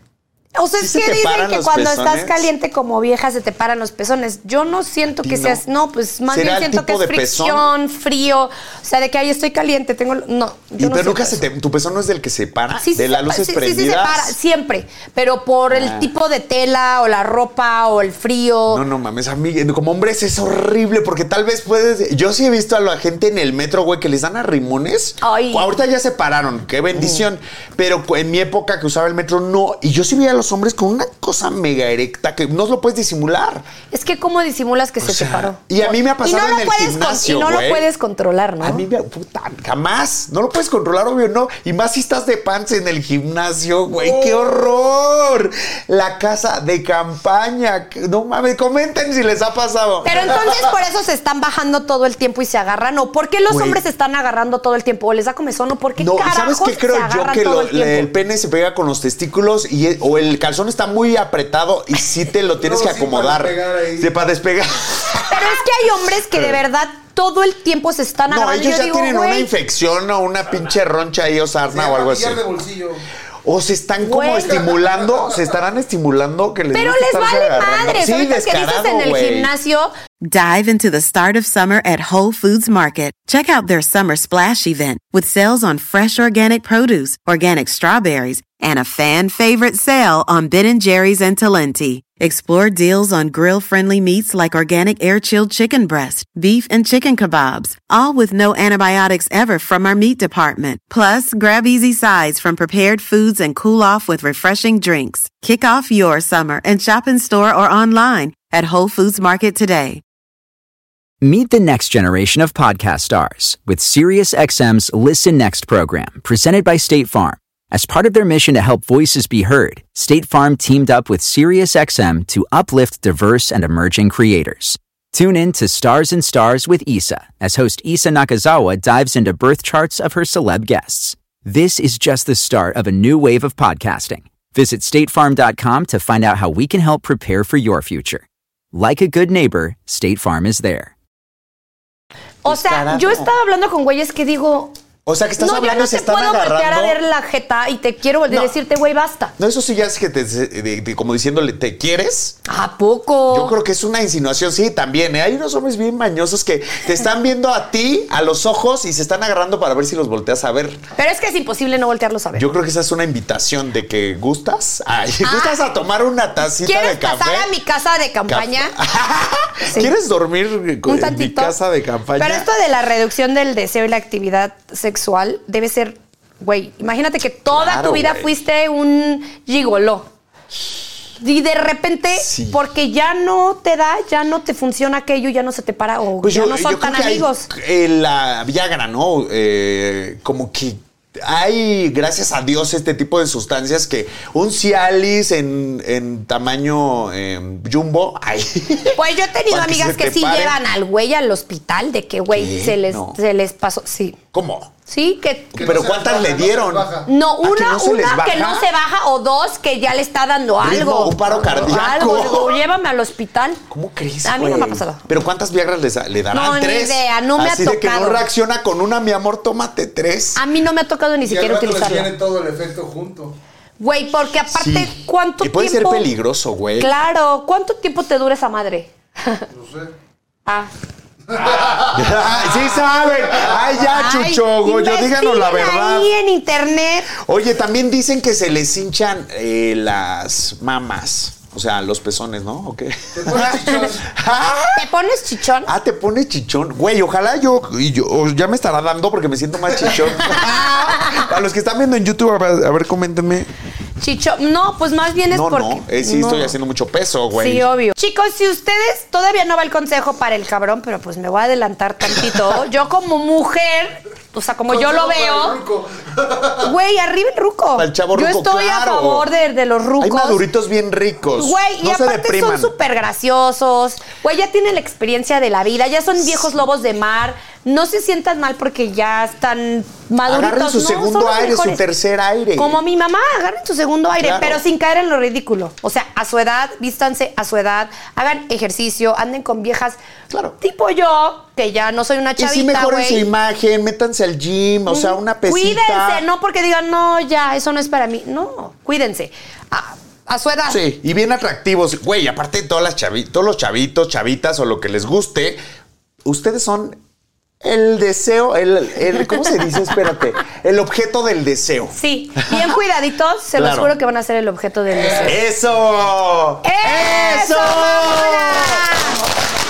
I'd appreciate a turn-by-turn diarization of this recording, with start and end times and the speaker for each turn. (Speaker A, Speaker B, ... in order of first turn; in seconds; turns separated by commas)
Speaker A: 0.6-11.4, Speaker B: 0.8-2.5, Speaker B: 5.1-5.6, Speaker B: 6.3-7.7, Speaker B: 10.8-14.4, Speaker A: 12.8-18.8, Speaker B: 15.7-16.1, Speaker B: 18.7-33.7, Speaker A: 25.2-25.7, Speaker A: 33.9-38.9, Speaker B: 35.0-37.8, Speaker B: 38.6-50.6, Speaker A: 50.0-58.1, Speaker B: 53.5-53.8, Speaker B: 56.0-65.6, Speaker C: 62.6-64.1, Speaker A: 65.3-69.5, Speaker B: 66.3-66.6, Speaker B: 68.3-72.4, Speaker C: 71.7-73.0, Speaker B: 73.4-79.5, Speaker A: 74.0-74.6, Speaker C: 74.3-75.5, Speaker A: 76.7-79.9, Speaker D: 80.2-110.0, Speaker E: 111.2-140.9, Speaker A: 142.4-144.7, Speaker B: 142.5-143.3, Speaker B: 145.1-147.0, Speaker A: 145.4-149.3, Speaker B: 149.4-152.4, Speaker A: 152.5-153.5, Speaker B: 153.3-160.8, Speaker A: 161.0-162.4, Speaker B: 162.4-167.5, Speaker A: 165.2-165.6, Speaker A: 166.6-168.8, Speaker B: 168.3-172.5, Speaker A: 170.9-171.5, Speaker A: 172.2-180.1, Speaker B: 177.5-178.3, Speaker A: 181.2-187.5, Speaker B: 182.2-182.6, Speaker B: 186.2-200.6, Speaker A: 199.0-204.2, Speaker B: 202.3-203.2, Speaker B: 204.3-204.8, Speaker A: 204.9-205.6, Speaker B: 205.5-208.7, Speaker C: 205.6-207.1, Speaker A: 207.1-213.6, Speaker B: 210.6-212.6, Speaker B: 213.7-220.4, Speaker A: 214.2-215.1, Speaker A: 216.3-218.2, Speaker A: 220.4-222.1, Speaker C: 221.2-223.4, Speaker A: 223.8-226.1, Speaker B: 224.5-226.9, Speaker A: 226.8-229.4, Speaker C: 229.5-229.9, Speaker A: 230.5-230.7, Speaker C: 231.3-232.2, Speaker B: 231.9-236.1, Speaker A: 233.9-237.1, Speaker B: 237.1-244.9, Speaker C: 243.2-244.1, Speaker A: 244.7-245.7, Speaker B: 245.7-253.5, Speaker C: 249.8-250.1, Speaker A: 250.3-251.3, Speaker A: 254.0-256.6, Speaker B: 255.3-257.7, Speaker A: 257.3-265.6, Speaker C: 264.7-266.7, Speaker A: 266.6-270.4, Speaker B: 267.8-269.3, Speaker B: 270.0-272.7, Speaker A: 271.4-281.8, Speaker B: 280.3-282.8, Speaker A: 282.6-290.0, Speaker B: 284.2-284.6, Speaker B: 290.3-290.6, Speaker A: 290.6-293.3, Speaker B: 292.4-296.2, Speaker A: 294.9-300.8, Speaker B: 300.7-305.6, Speaker B: 306.2-307.0, Speaker B: 307.6-312.6, Speaker A: 311.9-315.4, Speaker B: 313.6-313.9, Speaker C: 314.9-315.3, Speaker B: 315.2-318.9, Speaker A: 316.6-319.2